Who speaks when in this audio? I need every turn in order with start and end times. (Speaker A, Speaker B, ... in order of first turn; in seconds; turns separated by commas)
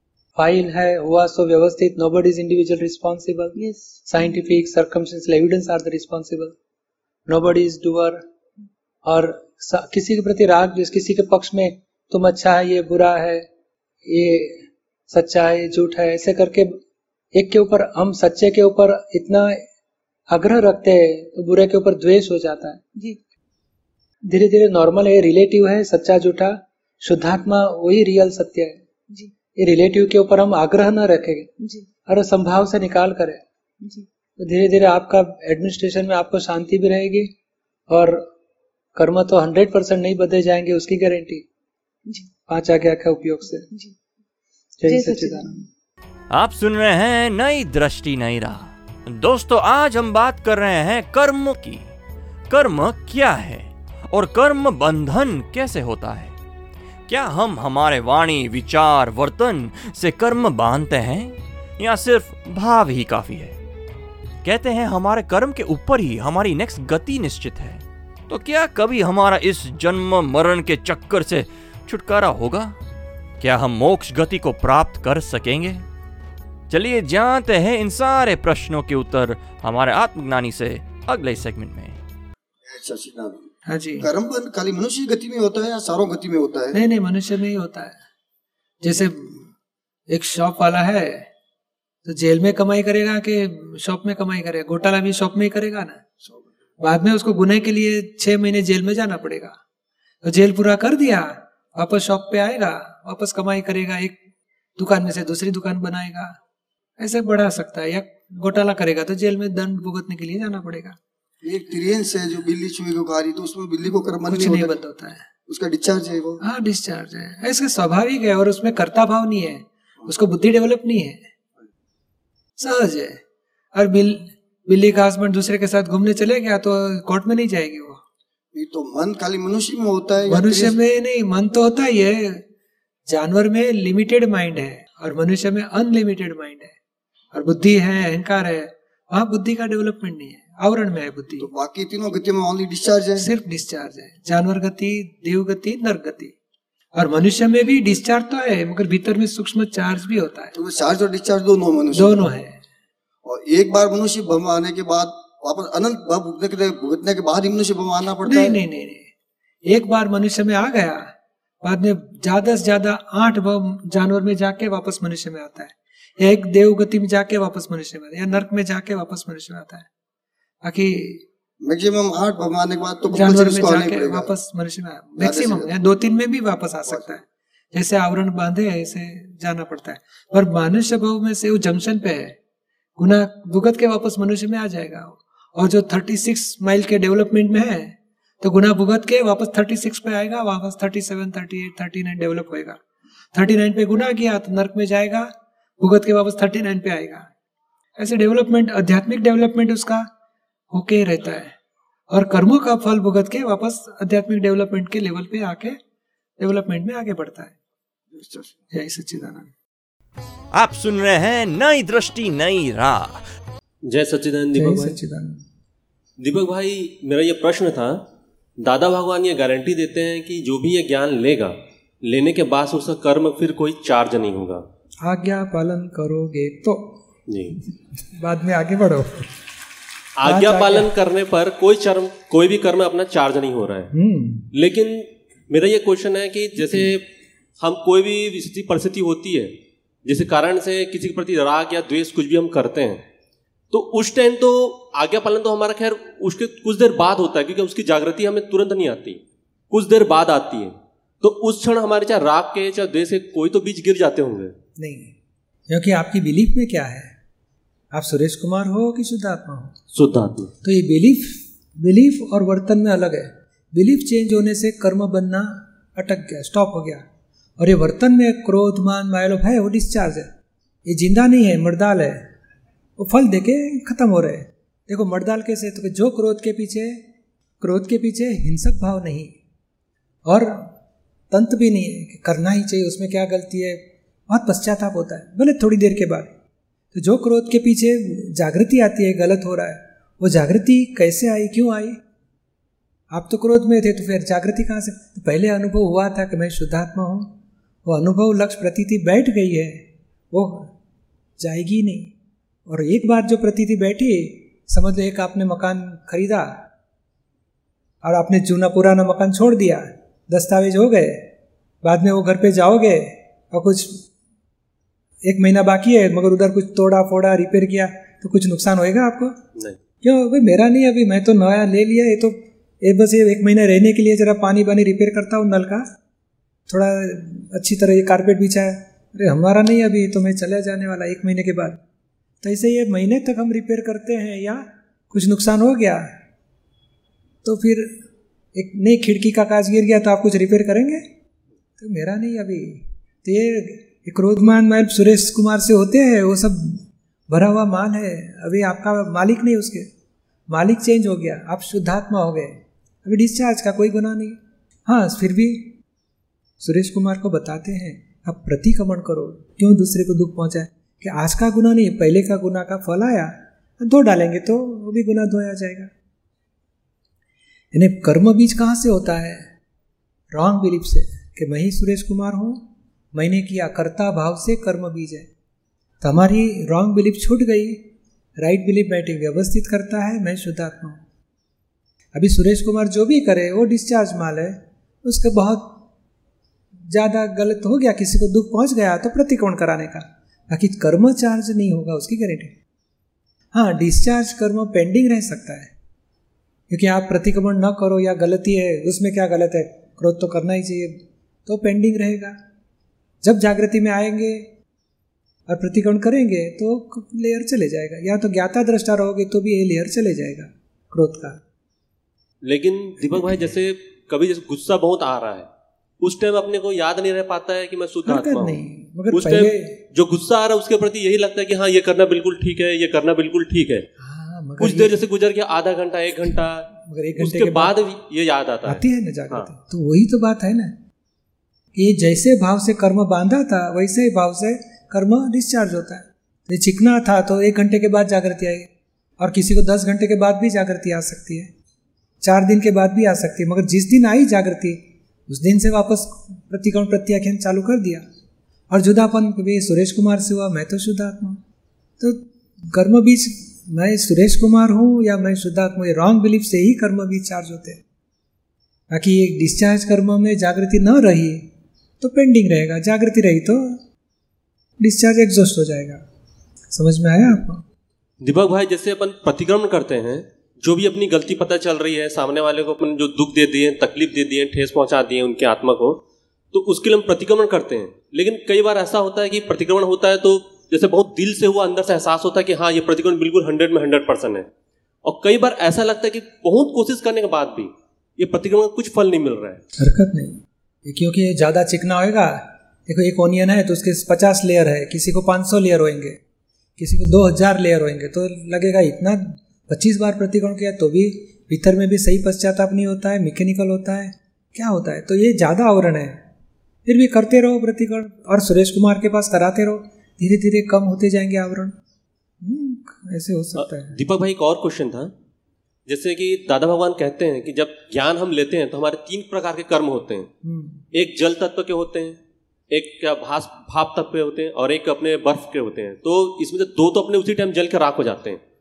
Speaker A: 0.3-6.5, Speaker B: 3.5-4.3, Speaker A: 7.3-8.2, Speaker A: 9.0-13.4, Speaker A: 14.0-16.8, Speaker A: 17.3-19.6, Speaker A: 20.3-22.8, Speaker A: 24.2-28.8, Speaker A: 29.6-31.5, Speaker B: 31.6-31.9, Speaker A: 32.1-33.4, Speaker B: 33.8-34.1, Speaker A: 34.4-37.3, Speaker A: 37.9-38.2, Speaker A: 38.9-41.5, Speaker B: 42.0-42.3, Speaker A: 42.5-43.7, Speaker B: 43.6-44.0, Speaker A: 44.8-45.6, Speaker B: 44.8-45.6, Speaker C: 46.3-51.9, Speaker C: 52.5-56.4, Speaker C: 57.1-63.6, Speaker C: 64.4-72.8, Speaker C: 73.4-75.8, Speaker C: 76.7-82.0, Speaker D: 82.6-83.5, Speaker A: 83.7-84.1, Speaker D: 84.0-86.7, Speaker A: 86.7-88.0, Speaker A: 88.8-89.5, Speaker A: 90.1-91.2, Speaker A: 92.0-96.0, Speaker A: 96.8-99.5, Speaker A: 100.2-104.2, Speaker A: 104.8-106.3, Speaker A: 107.0-111.0, Speaker D: 111.4-114.8, Speaker A: 114.2-115.3, Speaker D: 115.5-116.4, Speaker A: 116.4-121.3, Speaker A: 122.6-123.2, Speaker A: 123.7-128.0, Speaker D: 128.5-130.8, Speaker A: 130.2-132.4, Speaker A: 133.1-136.8, Speaker A: 137.3-141.5, Speaker D: 141.4-143.2, Speaker A: 143.1-146.3, Speaker A: 146.9-150.5, Speaker D: 150.5-152.3, Speaker A: 151.9-152.6, Speaker D: 153.2-158.6, Speaker A: 158.2-159.1, Speaker A: 159.7-161.0, Speaker A: 161.6-169.9, Speaker A: 170.6-171.2, Speaker D: 171.6-174.3, Speaker A: 173.1-182.3, Speaker D: 175.2-175.7, Speaker A: 183.0-192.8, Speaker A: 193.3-197.3, Speaker A: 198.0-200.1, Speaker A: 200.7-201.5, Speaker A: 202.1-205.8, Speaker A: 206.4-207.6, Speaker D: 208.1-208.5, Speaker A: 208.7-209.5, Speaker C: 210.5-213.2, Speaker E: 213.9-215.0, Speaker A: 214.5-215.4, Speaker E: 216.2-218.0, Speaker E: 218.6-224.6, Speaker A: 225.0-227.0, Speaker E: 227.3-227.6, Speaker A: 228.1-229.3, Speaker E: 230.2-233.9, Speaker A: 230.2-230.9, Speaker A: 233.9-234.5, Speaker E: 234.5-237.1, Speaker E: 237.6-239.5, Speaker E: 240.0-243.0, Speaker E: 243.7-254.5, Speaker A: 254.8-255.1, Speaker A: 255.7-257.1, Speaker A: 257.9-259.8, Speaker E: 259.9-260.5, Speaker A: 260.6-267.0, Speaker A: 267.6-270.3, Speaker A: 270.9-272.2, Speaker A: 273.0-277.0, Speaker A: 277.6-279.3, Speaker A: 280.3-280.7, Speaker A: 281.3-286.3, Speaker A: 286.9-292.0, Speaker A: 293.1-300.7, Speaker A: 301.4-302.1, Speaker A: 302.7-306.5, Speaker A: 308.0-311.3, Speaker A: 311.8-314.0, Speaker A: 315.2-319.3, Speaker A: 320.0-325.8, Speaker A: 326.7-331.8, Speaker A: 332.4-336.1, Speaker A: 337.4-337.9, Speaker A: 338.5-341.0, Speaker A: 341.8-349.9, Speaker A: 350.5-355.7, Speaker A: 356.6-365.9, Speaker A: 367.7-369.5, Speaker A: 370.3-372.6, Speaker A: 373.1-375.3, Speaker A: 376.0-377.8, Speaker A: 378.4-381.0, Speaker A: 382.1-385.8, Speaker A: 386.9-392.5, Speaker A: 393.5-395.7, Speaker A: 396.7-402.4, Speaker A: 403.2-404.5, Speaker A: 405.5-411.4, Speaker E: 412.4-415.5, Speaker E: 416.0-423.8, Speaker A: 418.0-419.8, Speaker A: 424.0-425.0, Speaker E: 424.6-429.5, Speaker A: 426.8-427.8, Speaker A: 428.6-430.7, Speaker A: 431.7-441.5, Speaker A: 442.2-448.0, Speaker A: 448.7-451.4, Speaker A: 452.0-457.8, Speaker A: 458.9-461.5, Speaker A: 462.0-463.8, Speaker A: 464.8-466.0, Speaker A: 466.7-467.6, Speaker E: 468.2-476.0, Speaker E: 476.5-484.5, Speaker E: 485.0-489.6, Speaker A: 489.8-496.2, Speaker A: 496.8-506.2, Speaker A: 506.9-511.7, Speaker A: 512.4-514.0, Speaker E: 513.6-515.1, Speaker E: 515.9-520.3, Speaker A: 520.4-520.9, Speaker E: 520.9-522.2, Speaker E: 522.7-528.4